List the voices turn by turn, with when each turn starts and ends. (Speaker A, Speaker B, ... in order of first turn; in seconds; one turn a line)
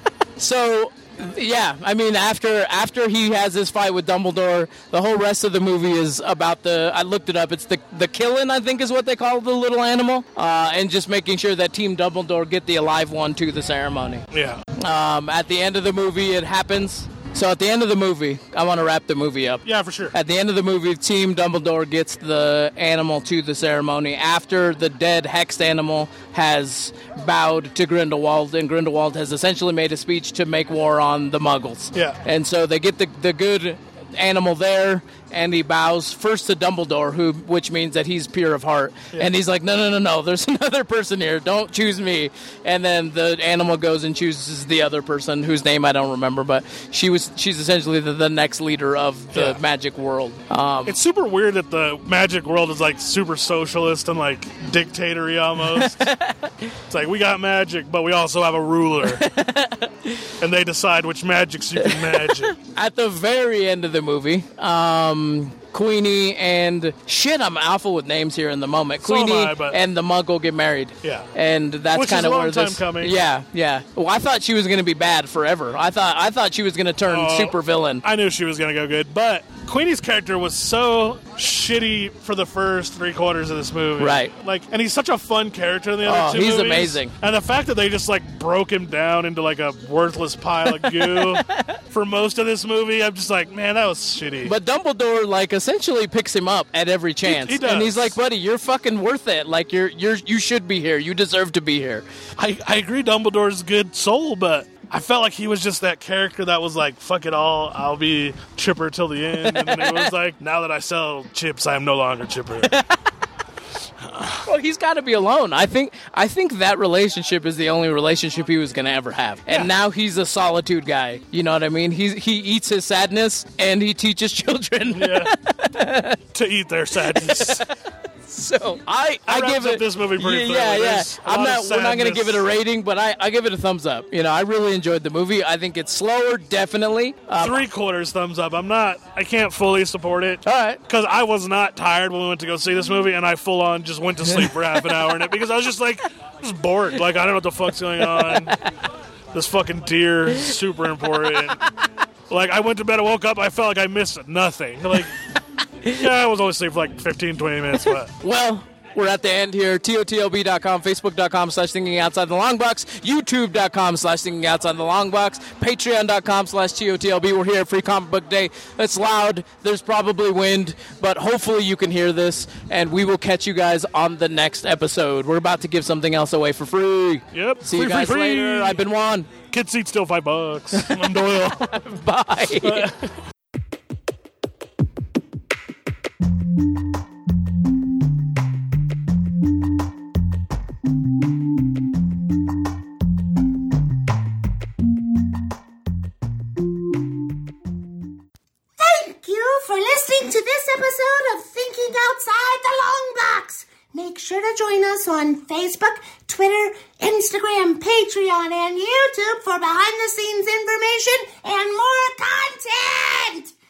Speaker A: 0.4-14.2
Speaker B: 14.3-14.6
Speaker A: 14.8-51.0
Speaker B: 19.6-20.1
Speaker B: 31.9-32.2
Speaker B: 49.3-49.6
Speaker B: 50.9-56.1
Speaker A: 55.7-56.7
Speaker B: 56.9-59.3
Speaker A: 59.1-60.3
Speaker B: 60.4-62.5
Speaker A: 61.8-78.0
Speaker B: 69.0-69.8
Speaker B: 71.0-71.3
Speaker B: 71.9-73.2
Speaker B: 77.0-94.5
Speaker A: 84.0-84.3
Speaker A: 86.0-87.1
Speaker A: 90.7-91.8
Speaker A: 94.4-102.0
Speaker B: 97.2-98.2
Speaker B: 102.4-112.7
Speaker A: 109.4-110.1
Speaker A: 112.6-113.0
Speaker B: 114.0-114.5
Speaker A: 114.4-126.2
Speaker B: 119.5-119.7
Speaker B: 124.9-125.3
Speaker B: 126.3-127.7
Speaker A: 127.0-127.7
Speaker A: 128.2-137.6
Speaker B: 129.2-132.5
Speaker B: 137.3-148.6
Speaker A: 140.4-140.8
Speaker A: 144.3-144.9
Speaker A: 148.0-148.7
Speaker B: 149.3-151.6
Speaker B: 152.3-155.1
Speaker A: 155.8-156.1
Speaker B: 156.0-158.1
Speaker A: 157.7-179.3
Speaker B: 177.3-178.8
Speaker B: 179.5-181.8
Speaker A: 180.7-182.9
Speaker B: 182.6-183.1
Speaker C: 198.8-213.5